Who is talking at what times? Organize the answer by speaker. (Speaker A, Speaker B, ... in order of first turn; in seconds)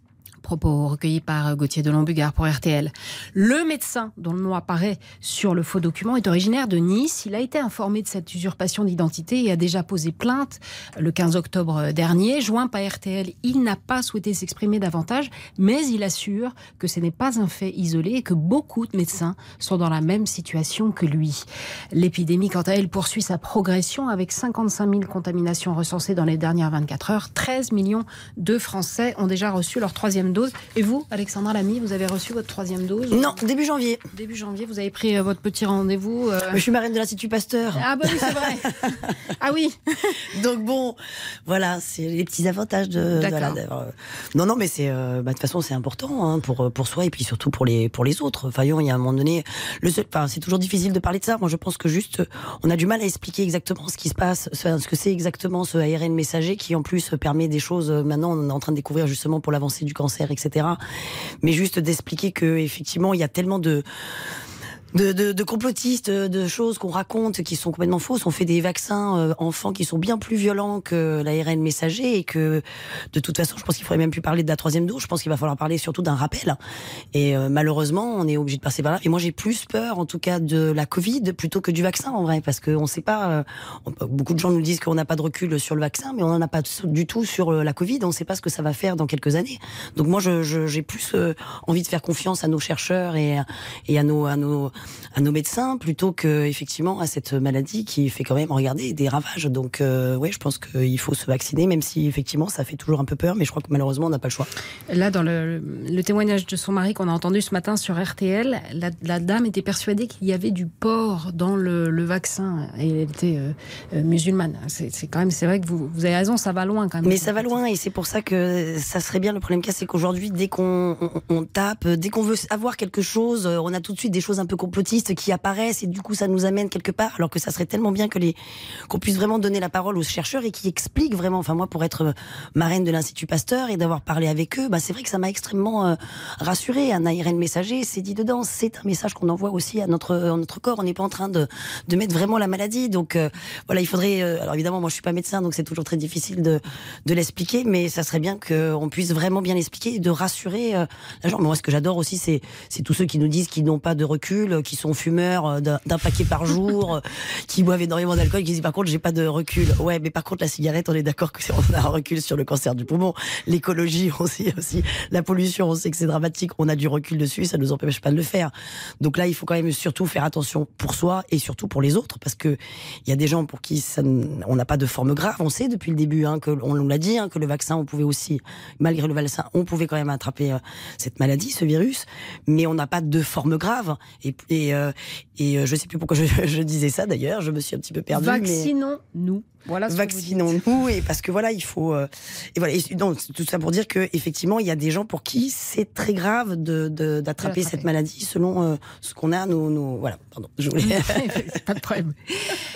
Speaker A: 0.4-33.4, 34.1-36.6, 37.8-40.2, 43.1-43.6, 104.9-117.6, 188.1-190.6, 197.4-197.9, 200.8-202.6
Speaker B: 33.1-34.0, 36.5-39.1, 40.3-60.8, 61.4-63.8, 64.9-76.6, 77.1-104.5, 117.0-128.3, 128.9-188.7, 189.9-201.3